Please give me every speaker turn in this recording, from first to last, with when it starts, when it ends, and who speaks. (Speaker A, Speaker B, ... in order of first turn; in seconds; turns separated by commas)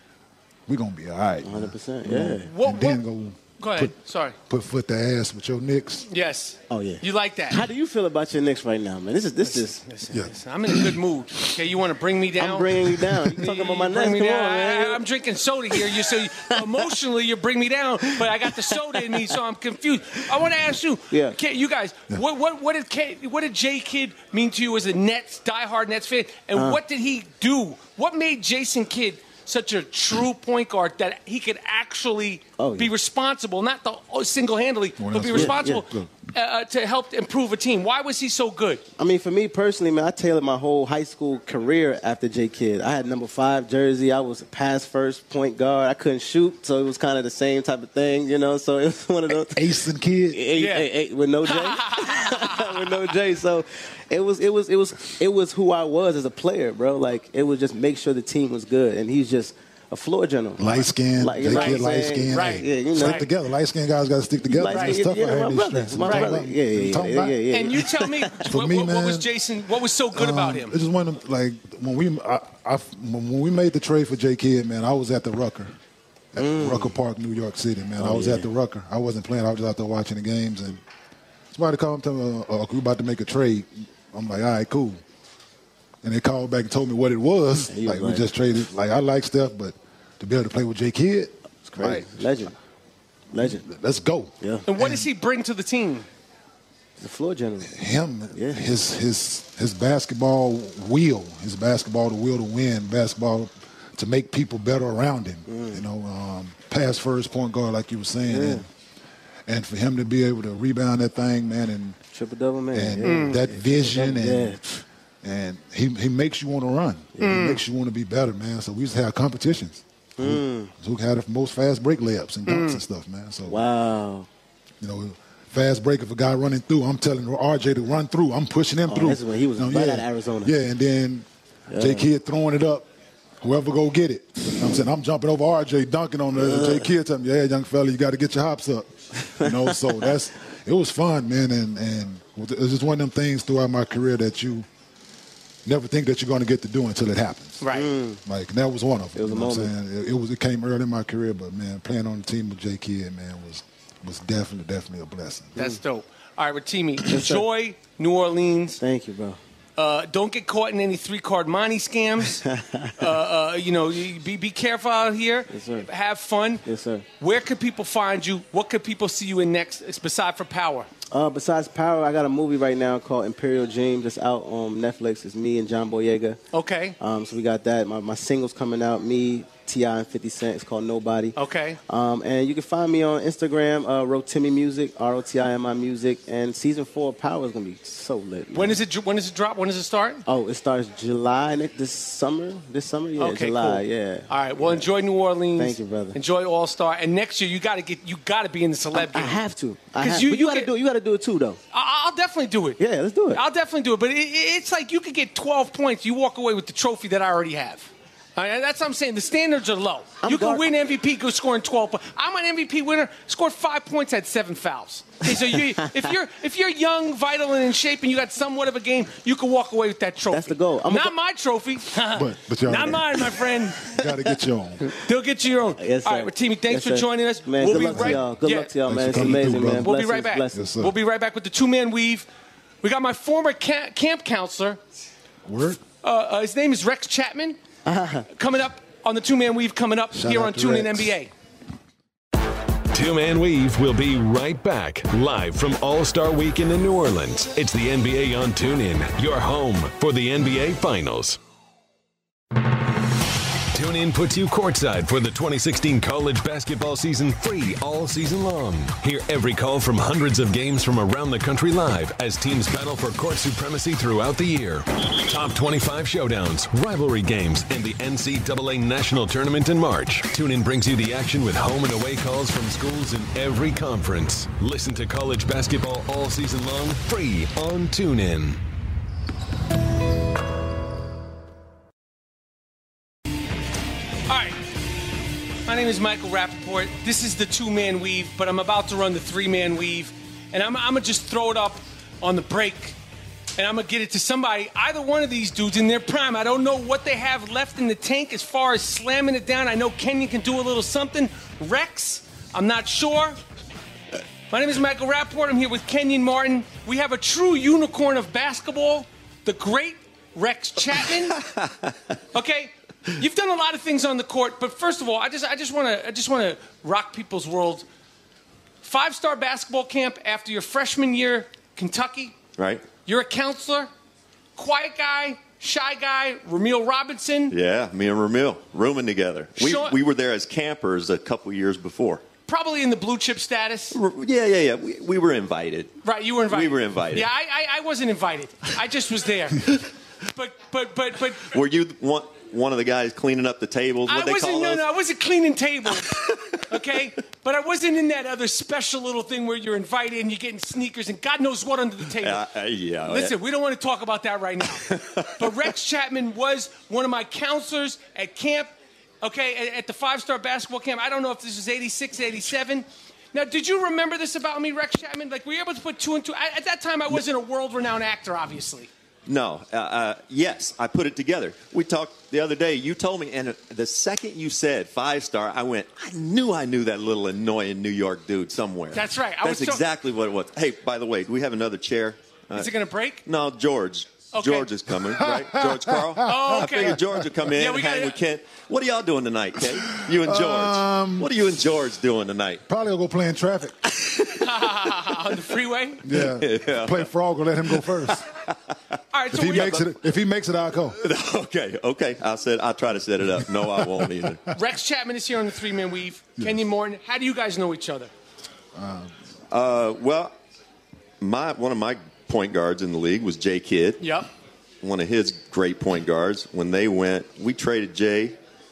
Speaker A: 0.7-4.0, Speaker B: 1.4-2.5, Speaker C: 2.5-3.0, Speaker C: 3.6-4.4, Speaker A: 4.5-6.1, Speaker C: 6.1-7.7, Speaker B: 6.7-9.8, Speaker C: 9.4-38.8, Speaker B: 12.4-15.0, Speaker B: 15.7-16.7, Speaker B: 18.2-19.3, Speaker B: 21.1-21.4, Speaker B: 26.6-26.8, Speaker B: 32.6-32.9, Speaker A: 35.0-36.1, Speaker B: 35.3-35.8, Speaker B: 39.0-49.7, Speaker A: 49.3-50.4, Speaker B: 50.3-63.3, Speaker C: 50.5-50.9, Speaker C: 51.5-52.9, Speaker A: 60.6-67.4, Speaker C: 61.5-63.3, Speaker B: 64.5-68.5, Speaker C: 64.7-65.0, Speaker C: 66.0-66.3, Speaker C: 67.5-70.8, Speaker A: 68.5-69.3, Speaker A: 70.1-75.7, Speaker A: 76.3-80.8, Speaker B: 76.4-76.9, Speaker B: 78.0-78.5, Speaker A: 81.5-85.0, Speaker A: 86.0-92.3, Speaker B: 87.7-88.3, Speaker B: 91.6-92.5, Speaker B: 93.3-93.6, Speaker A: 93.3-95.1, Speaker B: 94.4-94.7, Speaker C: 94.7-96.1, Speaker B: 97.0-97.8, Speaker A: 97.7-108.7, Speaker B: 98.3-98.7, Speaker B: 105.5-105.8, Speaker B: 108.3-108.7, Speaker A: 109.5-112.0, Speaker B: 112.1-114.8, Speaker A: 112.7-114.6, Speaker C: 113.0-113.4, Speaker A: 115.2-123.6, Speaker B: 117.2-117.5, Speaker C: 117.2-117.6, Speaker B: 120.2-120.7, Speaker C: 122.5-122.8, Speaker B: 123.5-124.3, Speaker A: 124.8-132.9, Speaker B: 128.9-130.6, Speaker B: 131.7-132.1, Speaker A: 133.4-144.7, Speaker B: 136.4-136.9, Speaker B: 139.4-139.7, Speaker A: 145.7-147.6, Speaker C: 147.6-147.9, Speaker B: 147.7-148.2, Speaker A: 148.2-155.6, Speaker B: 149.2-149.7, Speaker C: 155.6-158.8, Speaker B: 157.1-157.5, Speaker B: 158.8-159.4, Speaker C: 159.8-162.4, Speaker B: 162.4-162.9, Speaker C: 163.0-166.7, Speaker B: 165.5-165.9, Speaker B: 166.7-167.1, Speaker C: 167.2-170.9, Speaker B: 171.1-176.4, Speaker C: 176.5-176.9, Speaker B: 177.0-181.4, Speaker C: 181.4-181.8, Speaker B: 181.9-188.8, Speaker C: 188.5-190.2, Speaker B: 190.3-194.9, Speaker C: 193.2-199.4, Speaker B: 195.6-196.2, Speaker B: 198.9-201.6, Speaker C: 199.9-200.7, Speaker C: 201.7-202.8, Speaker B: 202.8-203.4, Speaker C: 203.3-223.9, Speaker B: 210.2-210.7, Speaker B: 220.3-221.1, Speaker A: 222.1-224.9, Speaker C: 224.9-232.3, Speaker B: 225.8-230.7, Speaker A: 227.8-228.2, Speaker A: 228.9-229.9, Speaker A: 230.5-230.9, Speaker C: 232.8-234.8, Speaker A: 235.4-235.8, Speaker C: 236.0-237.6, Speaker B: 237.9-238.3, Speaker C: 238.3-241.3, Speaker A: 240.1-241.2, Speaker D: 242.9-251.4, Speaker D: 253.7-278.6, Speaker C: 284.3-284.6, Speaker C: 285.7-292.9, Speaker C: 293.6-303.4, Speaker C: 304.5-311.4, Speaker C: 312.3-317.9, Speaker C: 318.8-322.4, Speaker E: 322.6-322.9, Speaker C: 323.1-323.9, Speaker C: 324.6-327.6, Speaker E: 327.5-332.2, Speaker C: 329.6-330.0, Speaker C: 332.5-334.0, Speaker E: 333.9-337.3, Speaker C: 336.0-341.6, Speaker E: 341.4-344.9, Speaker C: 344.1-352.4, Speaker E: 346.1-346.6, Speaker E: 352.2-353.4, Speaker C: 353.1-368.9, Speaker E: 354.8-355.6, Speaker E: 369.3-382.7, Speaker C: 378.9-379.9, Speaker C: 382.5-383.2, Speaker E: 383.2-392.6, Speaker C: 384.3-384.7, Speaker A: 385.2-386.5, Speaker C: 386.2-388.2, Speaker A: 390.0-391.3, Speaker A: 392.7-393.9, Speaker E: 394.0-394.4, Speaker C: 394.4-396.1, Speaker A: 396.0-398.2, Speaker E: 396.1-397.1, Speaker E: 397.7-398.5, Speaker C: 399.1-399.9, Speaker A: 399.3-401.0, Speaker E: 399.4-399.9, Speaker E: 400.9-404.4, Speaker C: 404.5-408.1, Speaker A: 408.7-409.1, Speaker E: 409.5-410.4, Speaker E: 411.2-414.2, Speaker C: 414.0-414.3, Speaker E: 414.8-418.4